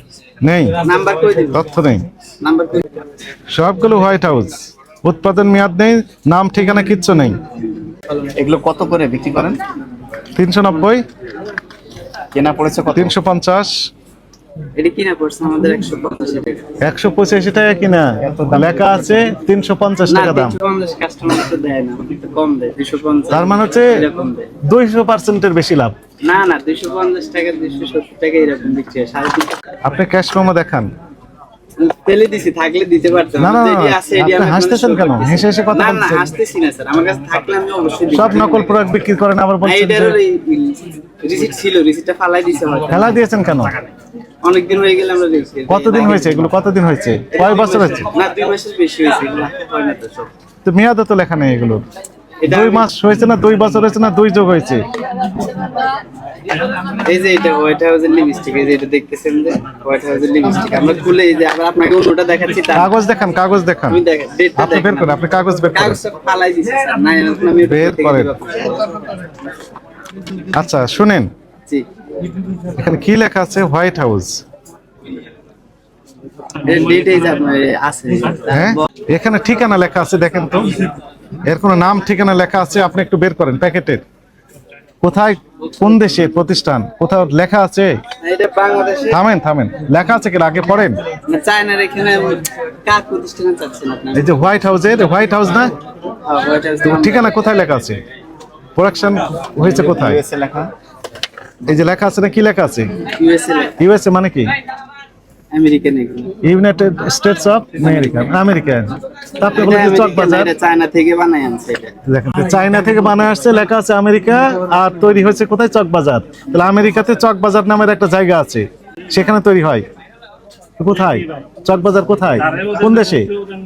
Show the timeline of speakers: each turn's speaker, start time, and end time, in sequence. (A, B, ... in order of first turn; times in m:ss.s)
0:00.4-0:00.8 A
0:00.8-0:01.6 B
0:01.5-0:02.0 A
0:02.4-0:02.9 B
0:03.5-0:07.4 A
0:08.3-0:09.6 C
0:10.4-0:11.0 A
0:12.3-0:13.2 C
0:12.9-0:13.7 A
0:14.7-0:16.7 B
0:16.8-0:20.6 A
0:18.2-0:19.3 C
0:20.1-0:24.5 B
0:23.3-0:24.1 A
0:24.7-0:25.9 A
0:26.2-0:29.6 B
0:29.8-0:30.9 A
0:31.8-0:38.8 B
0:33.4-0:36.3 A
0:38.1-0:40.2 A
0:39.6-0:43.3 B
0:42.9-0:43.7 A
0:44.4-0:46.5 B
0:45.7-0:48.1 A
0:47.3-0:50.3 B
0:50.6-0:51.8 A
0:52.4-0:52.9 B
0:52.4-0:54.8 A
0:56.8-1:02.9 B
1:02.7-1:04.0 A
1:03.9-1:05.2 B
1:04.6-1:06.0 A
1:05.7-1:09.2 B
1:07.6-1:08.4 A
1:10.4-1:11.3 A
1:12.7-1:14.4 A
1:16.6-1:18.9 B
1:18.5-1:24.0 A
1:25.0-1:28.0 A
1:28.2-1:29.2 B
1:29.1-1:31.0 A
1:31.2-1:34.4 B
1:34.1-1:35.7 A
1:36.2-1:37.4 B
1:36.8-1:38.0 A
1:38.8-1:40.2 A
1:39.6-1:40.7 C
1:41.6-1:43.0 A
1:43.1-1:43.8 B
1:43.8-1:44.5 A
1:45.5-1:46.4 B
1:46.4-1:50.5 A
1:47.8-1:48.1 B
1:49.5-1:51.9 B
1:52.1-1:59.8 A
2:00.8-2:03.3 A